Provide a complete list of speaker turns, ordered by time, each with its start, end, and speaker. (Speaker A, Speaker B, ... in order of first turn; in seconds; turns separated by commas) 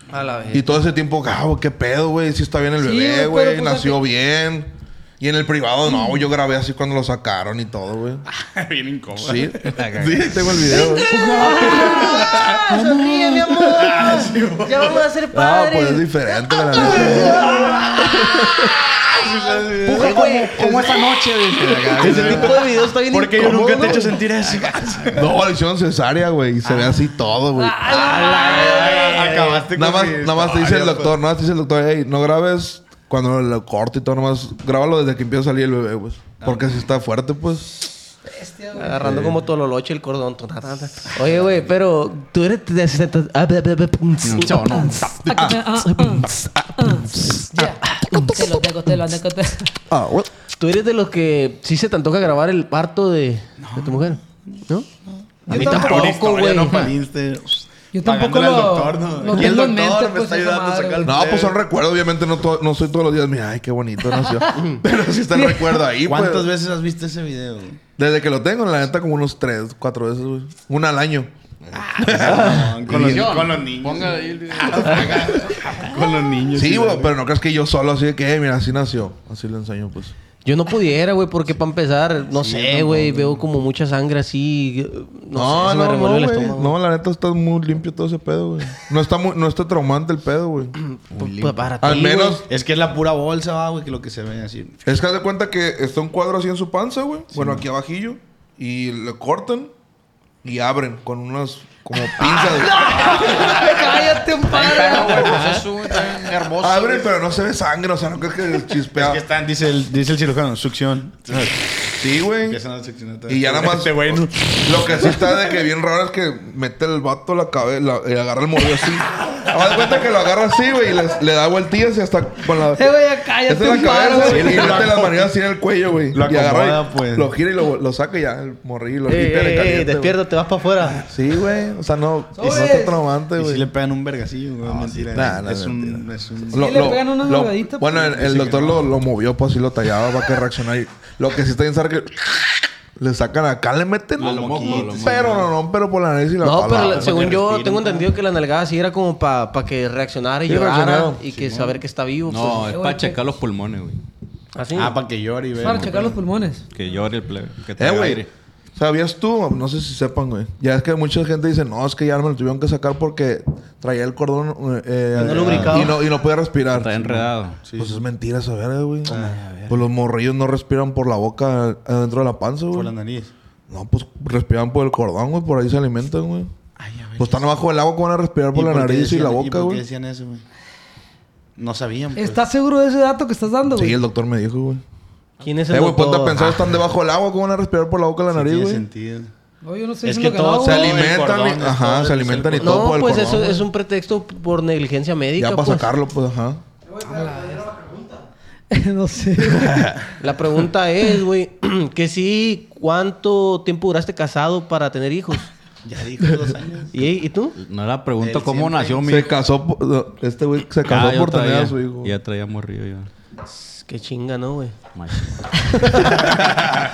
Speaker A: 0.1-0.7, Speaker B: 0.5-8.2, Speaker C: 2.8-4.0, Speaker D: 8.3-9.8, Speaker B: 9.2-12.5, Speaker E: 9.7-10.4, Speaker D: 10.4-12.8, Speaker A: 11.1-16.1, Speaker D: 13.6-15.1, Speaker B: 15.3-17.6, Speaker A: 16.8-18.7, Speaker D: 16.9-18.2, Speaker D: 18.9-21.1, Speaker A: 19.9-20.6, Speaker E: 19.9-22.6, Speaker D: 21.9-25.3, Speaker A: 22.0-24.2, Speaker E: 24.4-25.1, Speaker B: 25.1-27.9, Speaker D: 26.6-27.3, Speaker C: 27.6-29.3, Speaker D: 27.9-31.1, Speaker A: 28.0-29.6, Speaker E: 28.2-29.1, Speaker B: 29.7-37.8, Speaker D: 36.4-36.9, Speaker C: 38.3-39.2, Speaker A: 38.8-45.0, Speaker B: 39.1-39.4, Speaker D: 41.1-41.5, Speaker E: 44.2-45.5, Speaker C: 44.8-46.3, Speaker B: 45.3-47.7, Speaker A: 45.9-46.3, Speaker C: 46.8-49.7, Speaker A: 47.9-48.5, Speaker B: 49.9-50.3, Speaker A: 50.6-54.9, Speaker D: 53.6-61.6, Speaker C: 55.5-56.2, Speaker A: 55.5-56.9, Speaker E: 56.1-56.9, Speaker C: 57.9-61.1, Speaker B: 61.0-66.5, Speaker C: 65.5-65.8, Speaker D: 66.0-67.8, Speaker B: 68.0-71.3, Speaker E: 71.6-76.0, Speaker D: 71.8-77.2, Speaker B: 72.0-73.4, Speaker B: 76.5-80.1, Speaker A: 80.4-86.8, Speaker D: 82.3-83.5, Speaker B: 85.3-90.8, Speaker A: 90.8-92.4, Speaker E: 91.1-91.8, Speaker B: 91.8-92.5, Speaker D: 92.1-94.8, Speaker B: 94.9-99.7, Speaker D: 97.3-97.6, Speaker B: 100.4-103.1, Speaker C: 102.2-105.7, Speaker E: 102.7-107.1, Speaker B: 106.6-109.2, Speaker D: 108.9-111.7, Speaker B: 112.0-112.6, Speaker D: 112.4-115.4, Speaker B: 113.3-122.9, Speaker C: 122.7-124.8, Speaker B: 123.4-130.2, Speaker D: 124.2-125.3, Speaker D: 126.1-127.3, Speaker A: 129.1-131.0, Speaker B: 131.0-133.7, Speaker C: 132.3-133.0, Speaker D: 132.4-137.0, Speaker E: 134.6-135.3, Speaker B: 135.1-147.3, Speaker C: 136.6-138.0, Speaker D: 137.9-138.9, Speaker D: 144.2-145.5, Speaker E: 144.2-145.5, Speaker A: 146.4-152.8, Speaker E: 146.9-147.5, Speaker D: 147.1-148.1, Speaker B: 150.5-151.2, Speaker E: 152.3-154.0, Speaker C: 152.7-153.2, Speaker A: 154.6-155.0, Speaker D: 154.8-156.2, Speaker C: 155.6-156.7, Speaker E: 156.7-158.3, Speaker B: 157.8-172.9, Speaker D: 165.2-165.9, Speaker A: 165.2-166.0, Speaker E: 166.7-167.6, Speaker D: 167.6-168.0, Speaker D: 169.1-169.4, Speaker E: 169.1-169.8, Speaker D: 172.7-173.3, Speaker B: 173.7-176.5, Speaker D: 176.8-177.6, Speaker B: 177.2-179.8, Speaker D: 178.5-180.4, Speaker D: 181.6-182.4, Speaker C: 182.2-184.0, Speaker B: 183.7-184.8, Speaker A: 185.4-186.7, Speaker B: 185.7-188.9, Speaker D: 188.3-189.3, Speaker C: 189.6-191.0, Speaker D: 190.0-193.1, Speaker B: 190.6-193.7, Speaker A: 192.6-195.9, Speaker B: 195.4-196.6, Speaker C: 197.0-198.0, Speaker C: 198.7-200.0, Speaker B: 199.5-200.0, Speaker A: 200.2-205.5, Speaker D: 205.8-207.0, Speaker A: 206.9-207.6, Speaker E: 207.6-209.3, Speaker D: 208.2-209.1, Speaker B: 209.1-212.2, Speaker E: 210.9-213.1, Speaker A: 213.5-214.8, Speaker E: 214.9-216.1, Speaker A: 215.7-216.4